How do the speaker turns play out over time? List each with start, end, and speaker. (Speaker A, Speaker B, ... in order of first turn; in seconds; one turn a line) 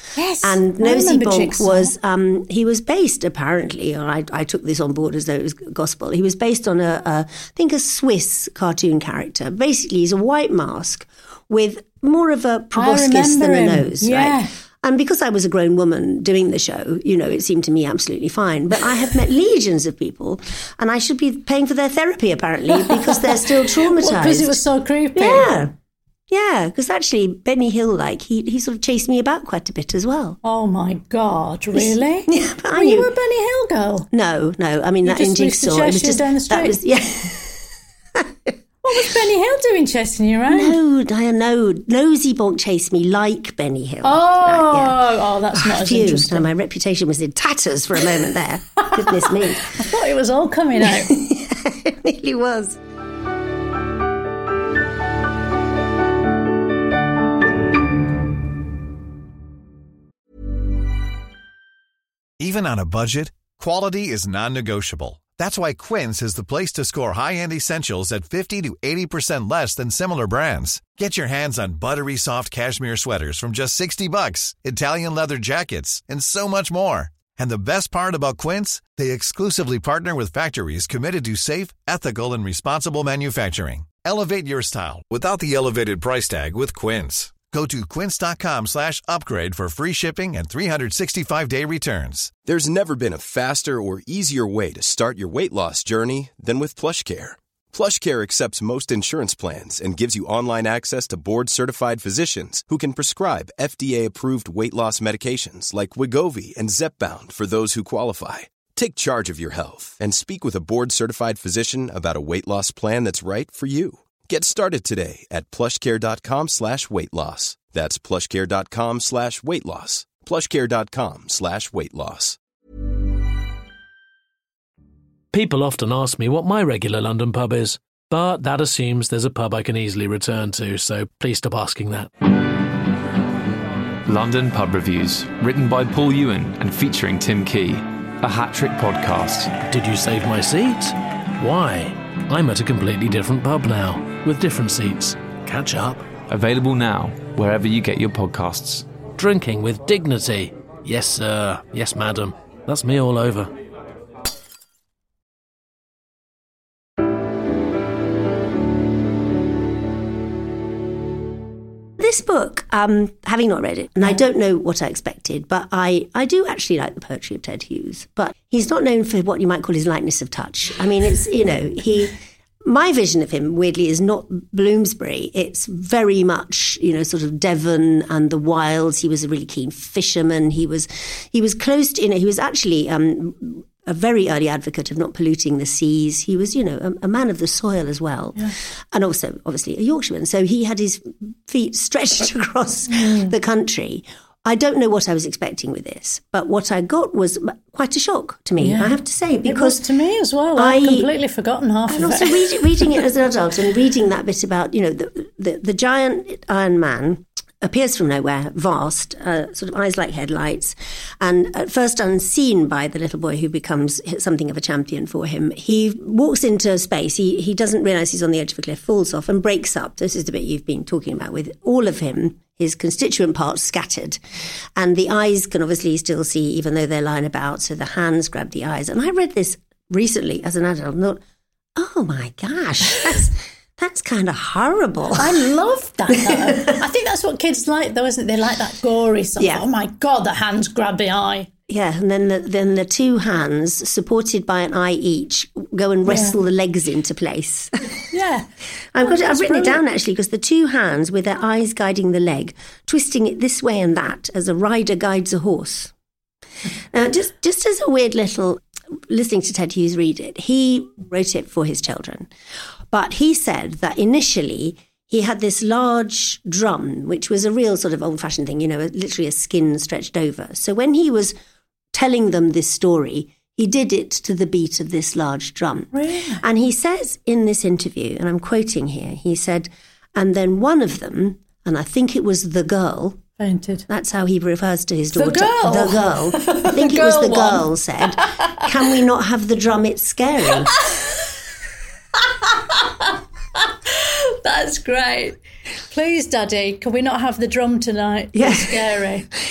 Speaker A: 0.1-1.9
Speaker B: 0.4-24.6
Speaker A: 12.7-14.5
Speaker A: 22.7-25.6
Speaker B: 25.1-25.7
Speaker B: 26.3-30.4
Speaker A: 30.4-34.1
Speaker B: 31.8-33.1
Speaker B: 34.1-37.6
Speaker A: 35.0-36.8
Speaker B: 38.1-38.5
Speaker A: 38.8-40.8
Speaker B: 40.5-49.8
Speaker A: 44.0-46.4
Speaker A: 48.8-51.1
Speaker B: 50.8-52.8
Speaker C: 62.4-92.3
Speaker D: 92.4-122.4
Speaker E: 125.3-132.1
Speaker F: 134.0-139.5
Speaker E: 139.6-146.2
Speaker F: 146.3-148.9
Speaker E: 149.2-153.5
Speaker B: 162.0-199.8
Speaker A: 192.9-193.3
Speaker A: 198.6-203.0
Speaker B: 200.5-201.1
Speaker B: 201.9-224.2
Speaker B: 224.8-231.2
Speaker B: 231.8-235.3
Speaker A: 235.2-241.5
Speaker B: 236.1-236.8
Speaker B: 239.4-239.6
Speaker B: 241.7-248.0
Speaker A: 246.1-246.4
Speaker A: 248.1-248.5
Speaker B: 248.9-255.9
Speaker A: 249.0-249.8
Speaker B: 256.9-262.3
Speaker B: 262.9-271.3
Speaker B: 271.9-283.2
Speaker A: 275.9-276.4
Speaker A: 283.4-283.9
Speaker B: 283.9-290.8
Speaker A: 285.1-288.8
Speaker A: 290.4-291.3
Speaker A: 292.3-299.3
Speaker B: 298.3-299.0